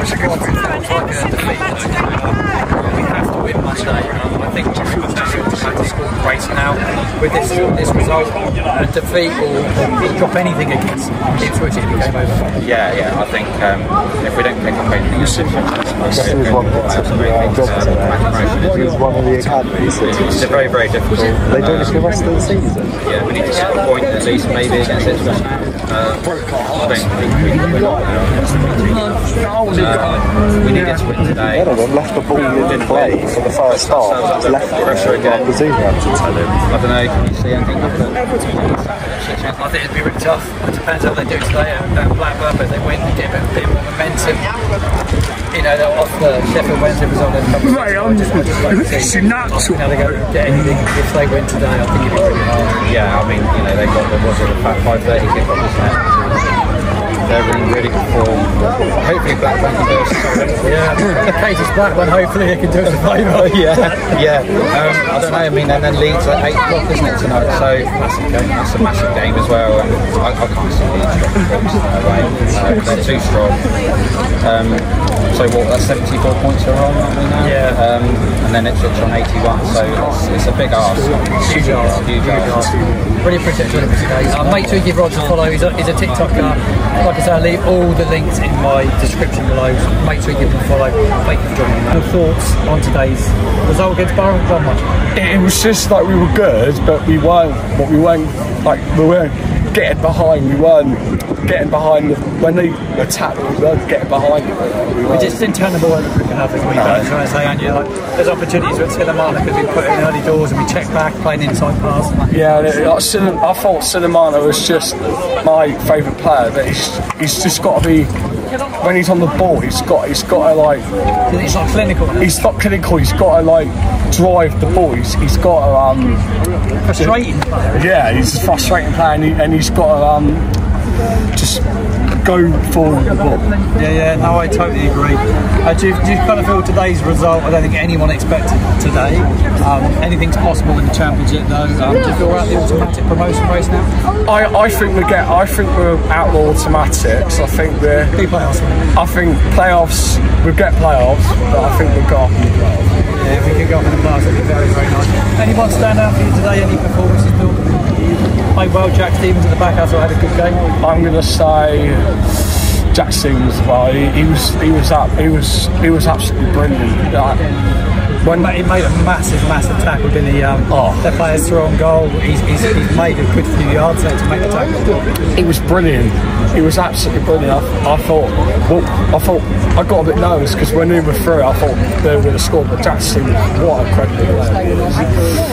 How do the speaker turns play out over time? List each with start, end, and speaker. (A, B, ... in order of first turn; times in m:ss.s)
0:00.3-0:12.5 A
0:12.6-0:22.1 B
0:16.1-0:20.8 C
0:21.4-0:22.9 C
0:23.0-0:31.8 B
0:29.5-0:30.1 D
0:31.4-0:36.7 C
0:32.4-0:35.6 B
0:36.7-0:39.7 B
0:39.6-0:44.5 A
0:45.5-0:52.7 A
0:52.8-0:56.5 B
0:57.2-1:01.3 B
1:00.6-1:04.2 A
1:03.3-1:13.7 B
1:12.7-1:13.1 A
1:14.4-1:22.8 B
1:17.4-1:17.8 A
1:21.4-1:22.6 A
1:23.2-1:34.9 A
1:24.3-1:25.4 B
1:35.1-1:45.4 D
1:45.1-1:52.4 A
1:46.7-1:47.1 D
1:52.3-1:58.1 D
1:58.8-2:00.9 D
2:01.3-2:02.3 A
2:02.2-2:06.2 D
2:06.9-2:07.8 A
2:07.7-2:10.4 D
2:11.3-2:11.6 D
2:12.2-2:13.5 D
2:13.7-2:23.9 A
2:24.2-2:28.1 D
2:28.1-2:28.9 A
2:28.9-2:32.7 D
2:33.1-2:37.6 A
2:38.5-2:40.6 A
2:40.8-2:42.1 D
2:42.9-2:47.4 D
2:48.2-2:48.5 D
2:48.3-2:55.0 A
2:50.7-2:51.0 D
2:55.3-3:05.1 D